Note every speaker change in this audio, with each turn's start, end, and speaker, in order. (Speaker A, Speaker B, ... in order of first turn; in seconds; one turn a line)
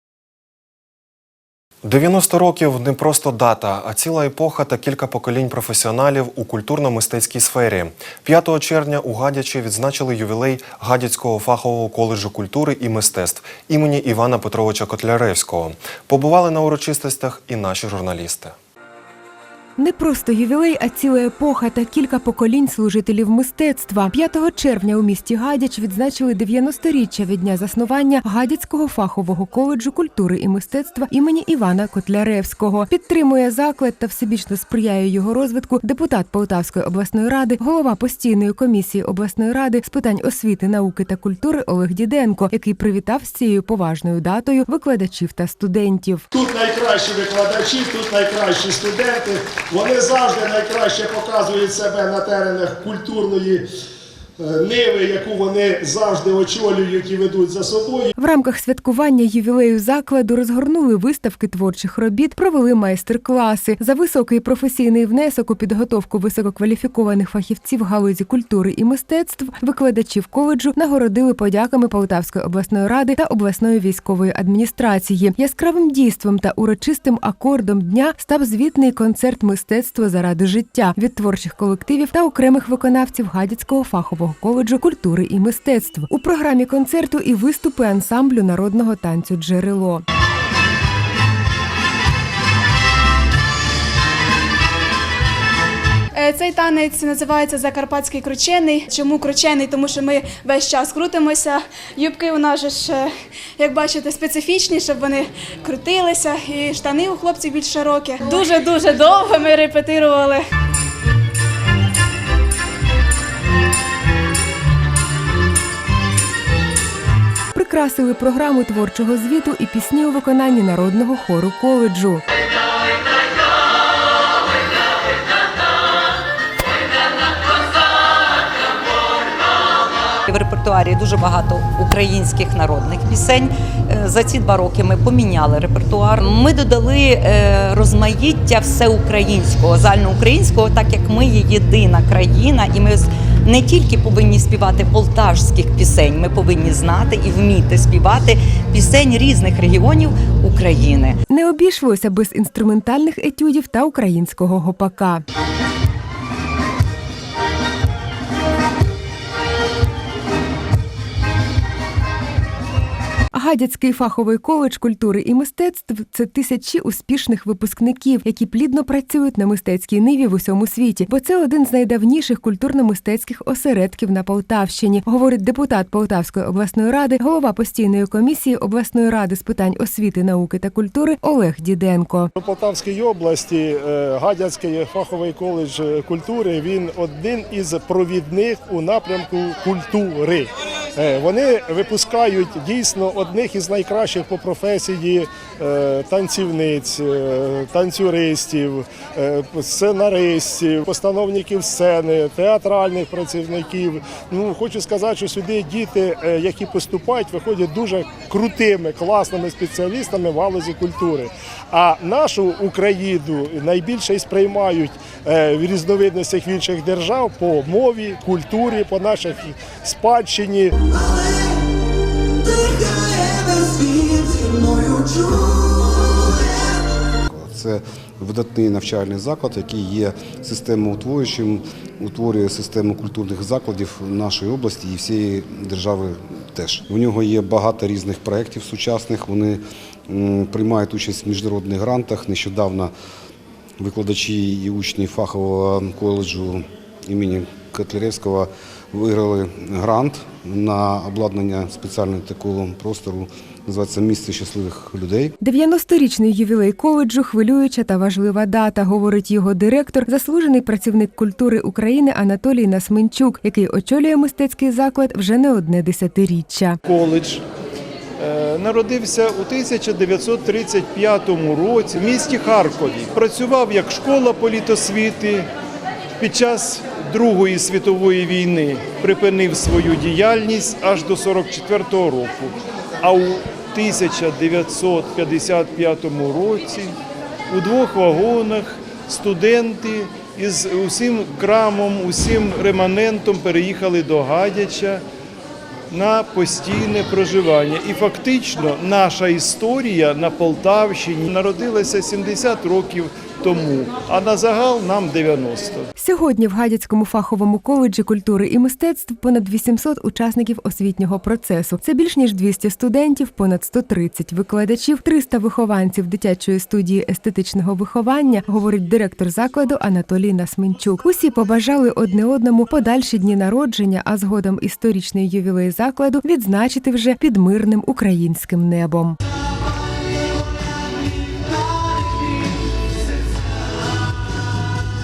Speaker A: 1.8-18.5
Speaker B: 19.8-46.2
Speaker C: 46.3-53.6
Speaker C: 54.4-58.1
Speaker B: 58.2-90.0
Speaker D: 96.1-110.4
Speaker B: 117.5-122.2
Speaker E: 130.2-151.2
Speaker B: 151.3-155.2
Speaker B: 163.3-182.3
Speaker C: 182.4-220.7
Speaker F: 227.3-242.9
Speaker F: 243.8-255.3
Speaker B: 255.4-266.8
Speaker G: 266.8-267.4
Speaker G: 268.2-275.5
Speaker G: 276.2-286.9
Speaker G: 287.5-295.0
Speaker G: 295.9-305.9
Speaker B: 306.0-329.1